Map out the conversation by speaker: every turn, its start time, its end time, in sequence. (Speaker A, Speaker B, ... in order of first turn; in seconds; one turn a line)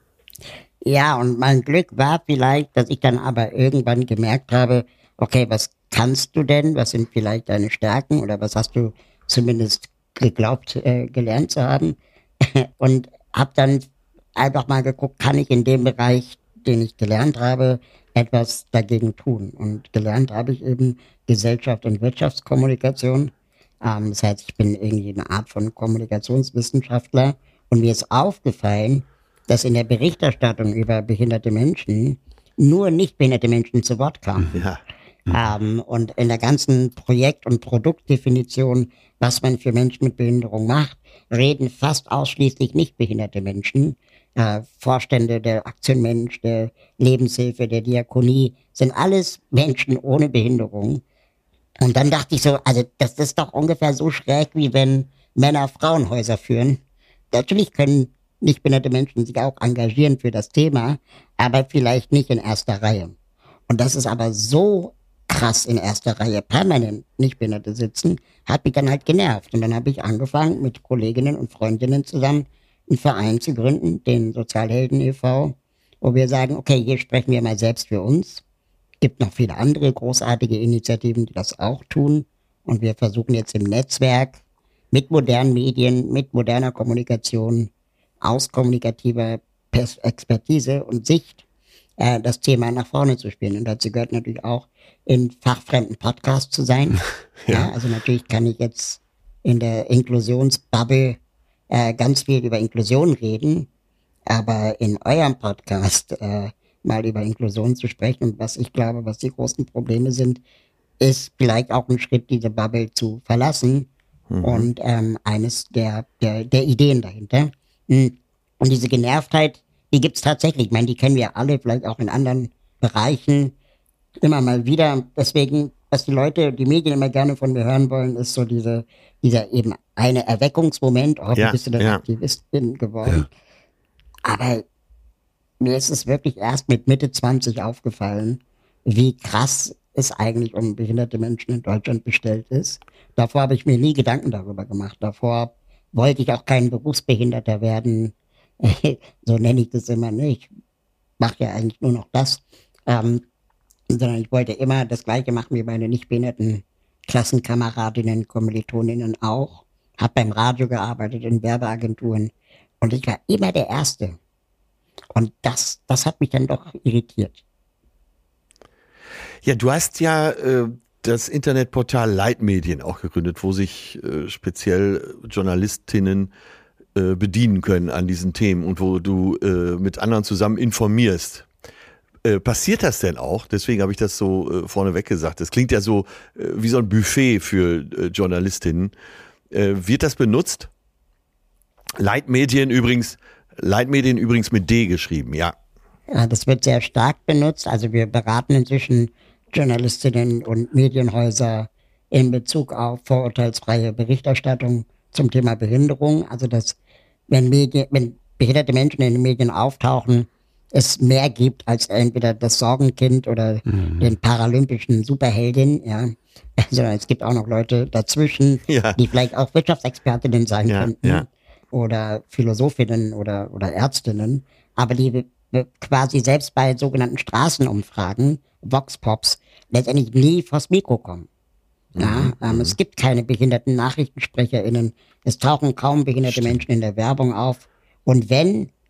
Speaker A: 0.8-34.6
Speaker B: 34.5-34.8
Speaker A: 35.3-51.0
Speaker A: 51.8-56.8
Speaker A: 57.3-63.1
Speaker A: 63.7-78.4
Speaker A: 79.0-84.4
Speaker A: 84.9-87.7
Speaker A: 88.2-91.4
Speaker A: 92.0-101.2
Speaker A: 101.7-103.7
Speaker A: 104.3-110.4
Speaker A: 111.0-113.9
Speaker B: 114.3-114.7
Speaker A: 114.4-123.5
Speaker A: 124.2-133.3
Speaker B: 131.3-132.0
Speaker A: 134.2-134.7
Speaker A: 135.6-150.5
Speaker A: 151.2-153.2
Speaker A: 153.9-164.2
Speaker A: 165.1-167.4
Speaker B: 169.4-176.3
Speaker B: 176.9-181.5
Speaker B: 182.2-188.9
Speaker B: 189.5-190.7
Speaker B: 192.0-195.6
Speaker A: 196.1-206.8
Speaker A: 207.3-231.3
Speaker B: 218.7-219.0
Speaker B: 220.7-221.2
Speaker B: 231.9-232.8
Speaker A: 232.0-238.7